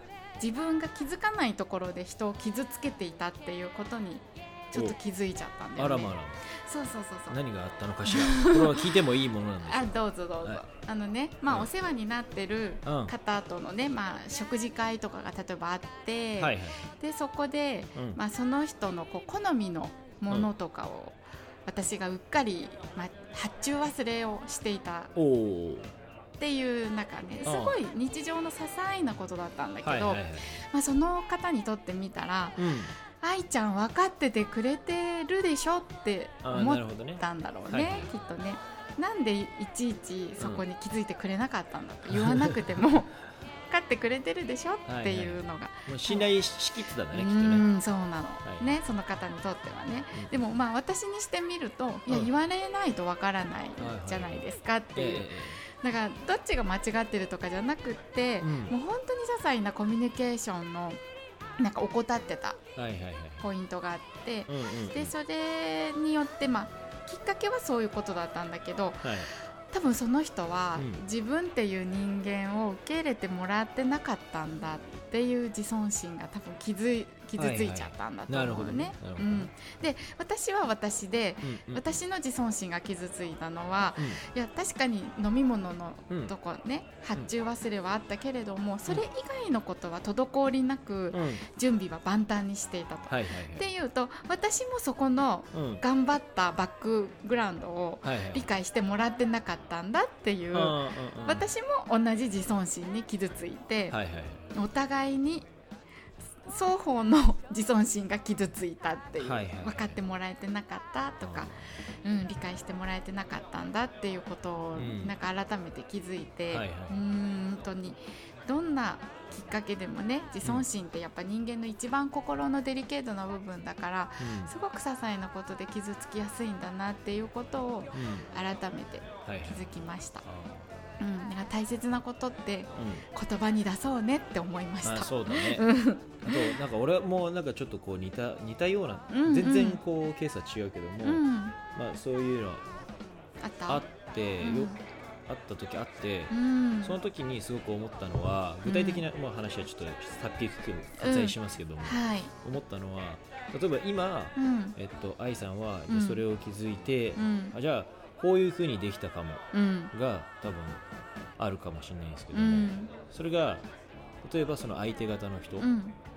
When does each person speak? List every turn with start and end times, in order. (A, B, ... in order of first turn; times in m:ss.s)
0:00.4-0:07.4 A
0:05.8-0:06.4 B
0:07.3-0:10.6 B
0:08.0-0:09.0 A
0:09.6-0:25.1 A
0:12.8-0:13.1 B
0:16.4-0:16.8 B
0:17.9-0:18.2 B
0:25.1-0:25.9 B
0:26.4-0:32.7 A
0:27.4-0:27.8 B
0:29.8-0:30.6 B
0:32.6-0:32.9 B
0:33.2-0:46.3 A
0:36.4-0:38.1 B
0:42.1-0:42.8 B
0:44.8-0:47.7 B
0:47.1-1:01.0 A
0:48.4-0:48.8 B
0:53.8-0:55.6 B
0:58.4-0:58.7 B
1:01.6-1:02.6 A
1:02.8-1:03.5 B
1:03.4-1:44.0 A
1:04.5-1:05.1 B
1:09.0-1:09.3 B
1:10.7-1:11.0 B
1:17.4-1:19.5 B
1:21.4-1:22.0 B
1:31.1-1:31.4 B
1:33.1-1:33.7 B
1:35.5-1:35.8 B
1:38.0-1:38.5 B
1:40.5-1:41.5 B
1:43.9-1:44.4 B
1:44.5-1:45.5 A
1:46.4-2:10.2 A
1:49.2-1:50.0 B
1:51.2-1:51.6 B
1:54.7-1:55.2 B
1:56.5-1:57.0 B
2:04.2-2:04.5 B
2:07.9-2:08.3 B
2:09.2-2:10.7 B
2:11.0-2:16.6 A
2:12.8-2:13.0 B
2:14.8-2:15.7 B
2:16.2-2:22.6 B
2:19.1-2:19.8 A
2:21.0-2:21.6 A
2:23.4-2:23.8 A
2:23.7-2:24.8 B
2:24.4-2:24.8 A
2:25.3-2:40.8 B
2:26.3-2:27.0 A
2:28.6-2:29.0 A
2:31.0-2:32.3 A
2:34.4-2:34.8 A
2:35.9-2:36.2 A
2:37.2-2:37.6 A
2:39.5-2:39.9 A
2:41.4-2:43.6 B
2:42.3-2:42.9 A
2:44.2-2:45.7 B
2:45.6-2:45.9 A